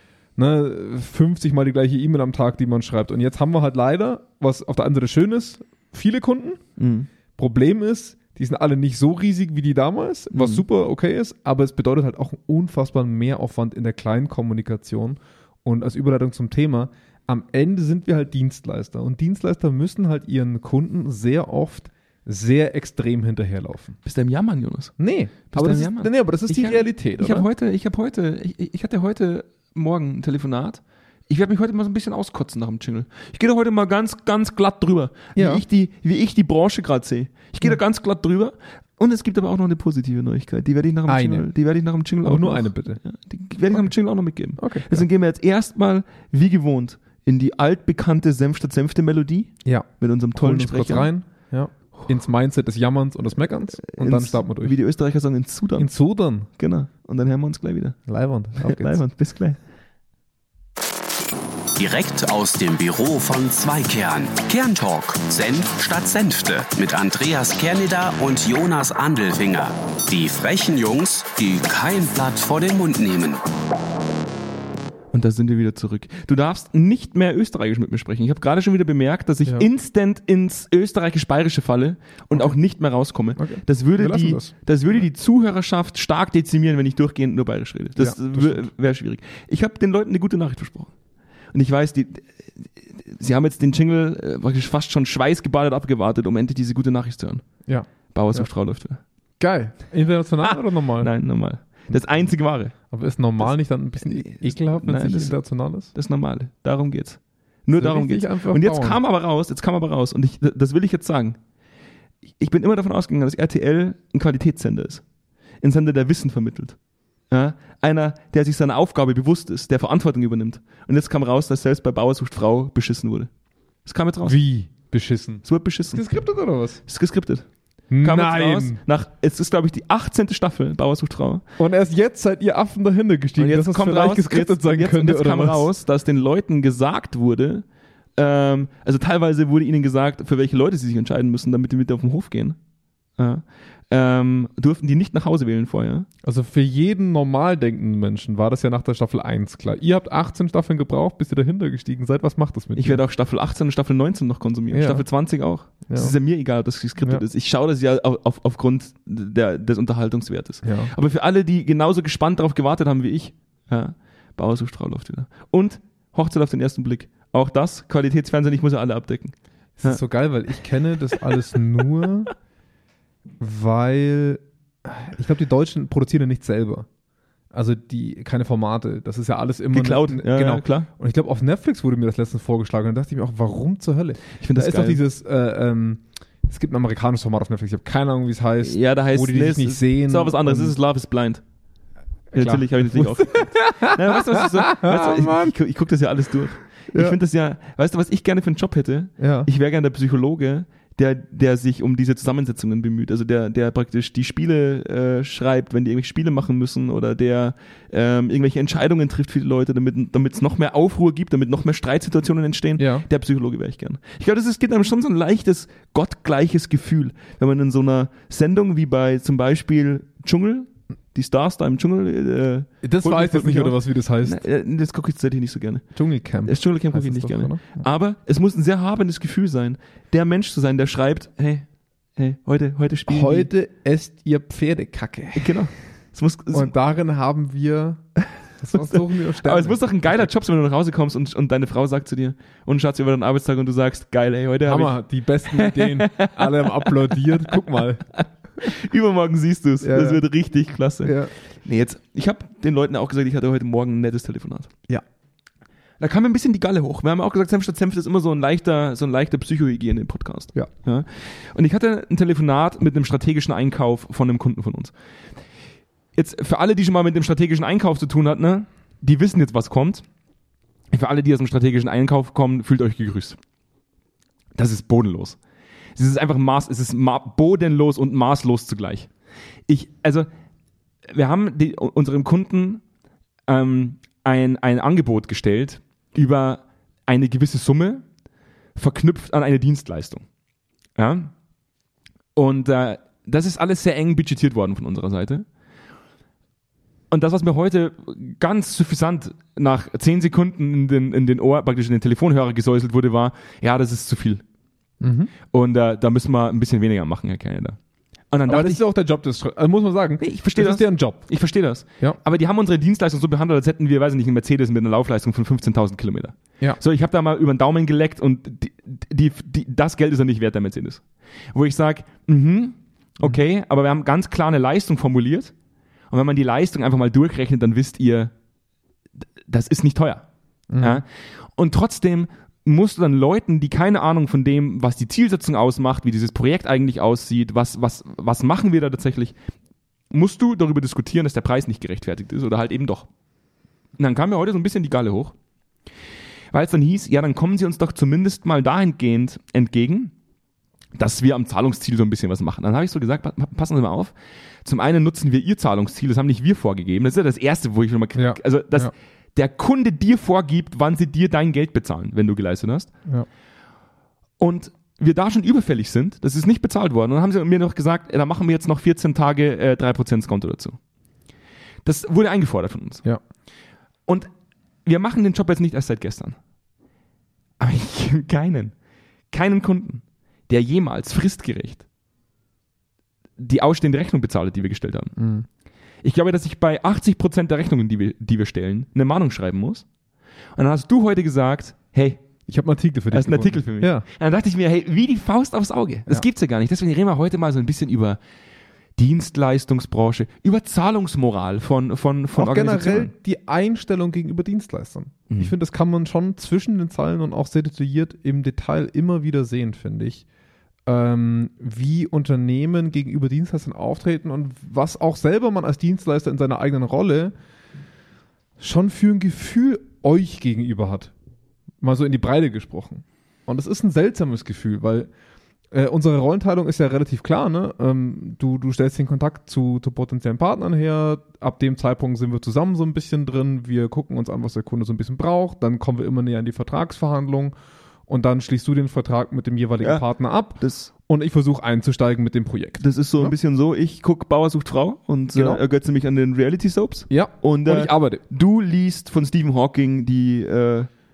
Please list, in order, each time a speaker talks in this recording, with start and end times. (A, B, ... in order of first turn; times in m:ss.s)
0:00.4-0:06.6 A
0:06.8-0:07.1 B
0:07.3-0:24.0 A
0:10.3-0:10.6 B
0:24.0-0:24.9 B
0:25.0-0:27.5 A
0:25.5-0:51.1 B
0:35.4-0:35.6 A
0:41.1-0:41.5 A
0:42.2-0:43.0 A
0:44.6-0:45.0 A
0:49.6-0:54.8 A
0:53.8-0:55.9 B
0:55.8-0:56.5 A
0:56.6-0:58.0 B
0:58.1-0:59.0 A
0:58.6-0:59.6 B
1:01.8-1:13.4 C
1:15.1-1:30.9 B
1:23.4-1:24.5 A
1:28.0-1:28.6 A
1:31.5-1:37.4 B
1:37.6-1:38.5 A
1:38.1-1:39.0 B
1:39.4-1:41.1 A
1:40.4-1:42.7 B
1:42.8-1:45.9 A
1:44.0-1:45.3 B
1:45.9-1:51.4 B
1:47.8-1:49.0 A
1:52.4-1:55.0 B
1:55.6-1:56.8 B
1:57.3-2:03.3 B
2:03.8-2:04.4 B
2:04.2-2:06.8 A
2:05.4-2:06.0 B
2:06.8-2:07.4 B
2:07.9-2:08.8 A
2:08.0-2:11.4 B
2:11.6-2:15.7 A
2:13.4-2:17.6 B
2:18.2-2:22.6 B
2:23.2-2:26.1 B
2:26.2-2:33.0 A
2:32.8-2:50.0 B
2:34.7-2:35.0 A
2:35.8-2:36.1 A
2:40.6-2:40.9 A
2:49.8-2:52.3 A
2:53.4-2:56.9 A
2:57.5-3:10.8 A
2:59.7-3:00.9 B
3:04.4-3:05.0 B
3:08.6-3:11.4 B
3:12.3-3:45.8 B
3:12.3-3:15.6 A
3:16.9-3:17.2 A
3:19.2-3:19.5 A
3:32.8-3:33.0 A
3:42.8-3:44.4 A
3:45.9-3:47.8 A
3:46.4-3:53.5 B
3:53.1-3:55.6 A
3:55.3-3:56.7 B
3:56.5-3:58.1 A
3:58.6-4:00.2 A
3:58.7-4:05.0 B
4:04.6-4:08.0 A
4:05.5-4:07.6 B
4:08.1-4:14.7 B
4:09.8-4:10.2 A
4:11.0-4:11.3 A
4:16.0-4:24.9 B
4:26.2-4:30.0 B
4:30.9-4:33.4 B
4:34.5-4:35.4 B
4:36.0-4:39.1 B
4:39.7-4:40.3 B
4:41.1-4:42.8 B
4:43.5-4:48.0 B
4:48.8-4:50.2 B
4:51.0-4:51.3 B
4:52.4-4:55.4 B
4:57.1-5:04.4 B
5:05.0-5:05.3 A
5:05.5-5:07.8 B
5:08.3-5:08.8 B
5:08.5-5:11.3 A
5:10.2-5:25.5 B
5:26.1-5:28.3 B
5:29.4-5:30.2 B
5:30.7-5:31.0 A
5:30.8-5:39.3 B
5:40.1-5:43.1 B
5:44.0-5:45.3 B
5:46.5-5:50.1 B
5:51.0-6:02.9 B
5:58.2-5:58.9 A
6:04.4-6:10.8 B
6:11.8-6:13.0 B
6:14.8-6:16.4 B
6:17.6-6:18.7 B
6:19.3-6:21.8 B
6:23.4-6:25.2 B
6:25.2-6:25.4 A
6:26.0-6:29.8 B
6:30.6-6:32.2 B
6:32.5-6:34.0 A
6:33.1-6:38.2 B
6:39.0-6:43.1 B
6:42.4-6:50.2 A
6:45.3-6:45.5 B
6:50.8-6:57.3 A
6:58.6-7:01.1 A
7:01.8-7:05.1 A
7:05.7-7:17.5 A
7:18.1-7:23.3 A
7:20.6-7:20.9 B
7:22.8-7:30.9 B
7:25.3-7:25.6 A
7:27.1-7:28.2 A